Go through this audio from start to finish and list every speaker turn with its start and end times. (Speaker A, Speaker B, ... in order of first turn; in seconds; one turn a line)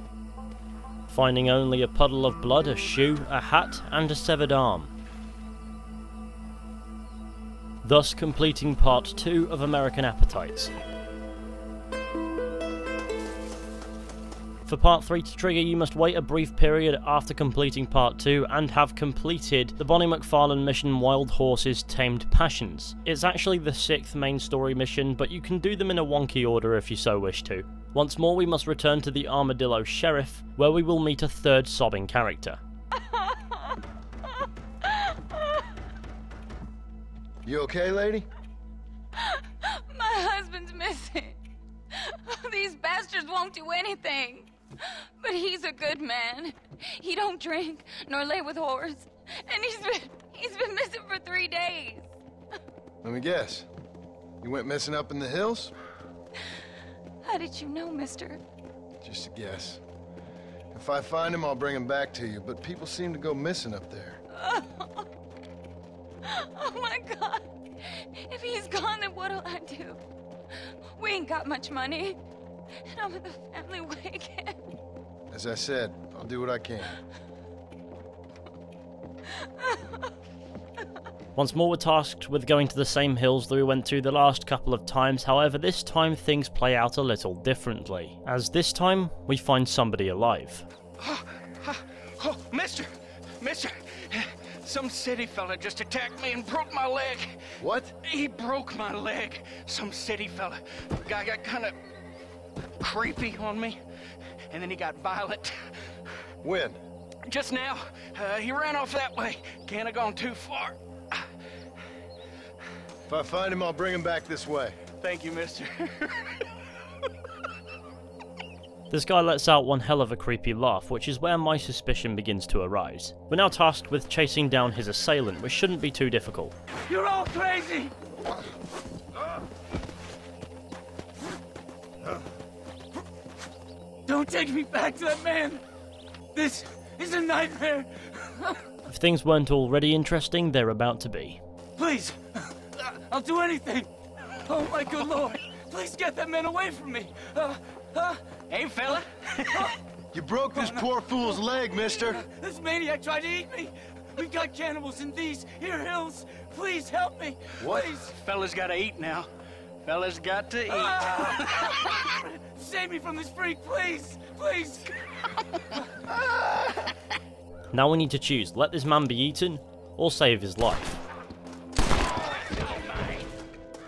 Speaker A: 1.1-4.9
Speaker A: 7.8-10.7
Speaker A: 14.7-32.6
Speaker B: 37.4-38.2
Speaker C: 39.2-41.4
Speaker C: 41.9-52.0
Speaker B: 53.0-53.7
Speaker B: 54.4-55.7
Speaker C: 57.2-58.4
Speaker B: 59.0-59.8
Speaker B: 60.7-64.2
Speaker C: 64.3-65.1
Speaker C: 66.2-70.0
Speaker C: 70.9-72.2
Speaker C: 72.9-74.6
Speaker B: 75.3-77.0
Speaker A: 81.3-90.7
Speaker D: 91.0-101.8
Speaker B: 97.6-97.9
Speaker D: 102.8-103.8
Speaker D: 104.5-105.7
Speaker B: 106.4-106.8
Speaker D: 107.2-111.2
Speaker B: 113.1-114.7
Speaker D: 115.0-116.4
Speaker A: 118.9-126.5
Speaker E: 126.9-127.9
Speaker E: 134.1-135.6
Speaker E: 136.3-138.6
Speaker A: 138.8-141.4
Speaker E: 141.8-143.9
Speaker E: 144.5-148.3
Speaker D: 144.8-145.2
Speaker D: 148.4-149.7
Speaker B: 150.1-152.2
Speaker E: 151.9-158.1
Speaker B: 157.6-158.0
Speaker D: 158.0-159.3
Speaker D: 159.8-162.2
Speaker E: 160.7-164.9
Speaker A: 167.7-171.0